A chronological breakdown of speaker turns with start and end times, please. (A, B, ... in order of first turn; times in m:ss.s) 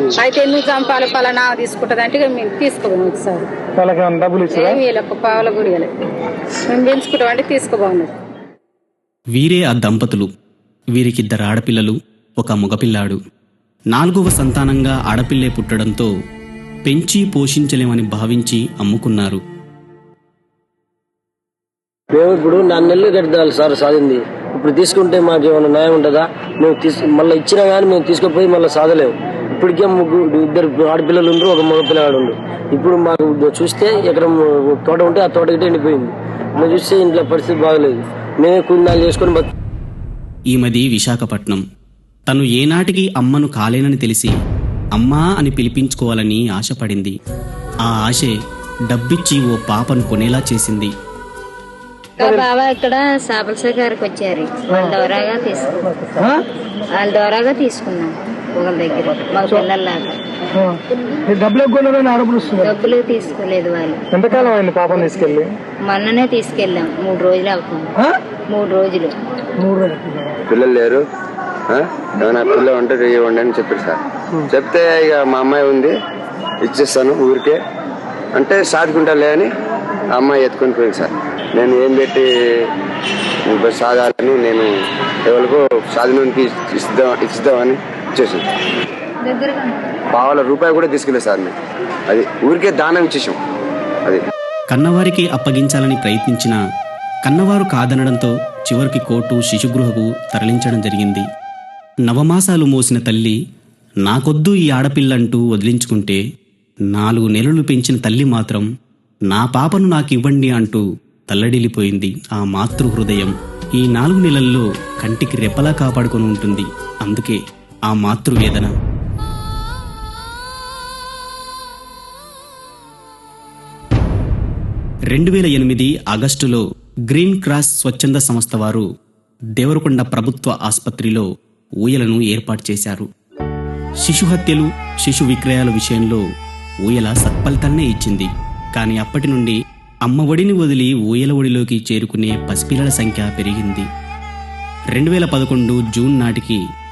0:00.2-0:03.4 A
0:03.8-0:04.8 B
0:04.6-0:05.9 A
0:06.7-0:08.1 A
0:09.4-0:10.3 C
0:11.0-0:13.2 C
0:13.9-0:16.1 C
0:16.9-0:19.4 C
0:22.1-0:39.5 D
0:40.5-0:41.6 C
0:42.3-0:44.4 C
0:45.0-0:47.2 C
0:47.8-0:48.4 C
0:48.9-0:50.9 C
0:52.2-0:55.8 E
0:56.9-1:00.1 E
1:01.3-1:02.7 B
1:02.5-1:04.5 E
1:04.1-1:05.5 B
1:05.9-1:07.9 E
1:08.5-1:09.1 E
1:09.6-1:10.3 B
1:10.5-1:11.0 F
1:11.7-1:14.0 F
1:14.5-1:15.9 F
1:16.6-1:17.6 F
1:18.4-1:19.5 F
1:20.1-1:22.3 F
1:23.5-1:24.7 F
1:25.3-1:28.4 F
1:29.3-1:30.0 E
1:30.1-1:31.5 F
1:32.1-1:33.4 F
1:34.7-1:36.6 C
1:37.3-1:41.3 C
1:42.1-1:43.4 C
1:44.1-1:46.2 C
1:46.9-1:48.7 C
1:49.3-1:58.7 C
2:05.1-2:08.9 C
2:09.6-2:11.3 C
2:11.8-2:13.1 C
2:14.0-2:16.2 C
2:16.9-2:23.9 C
2:25.0-2:26.6 C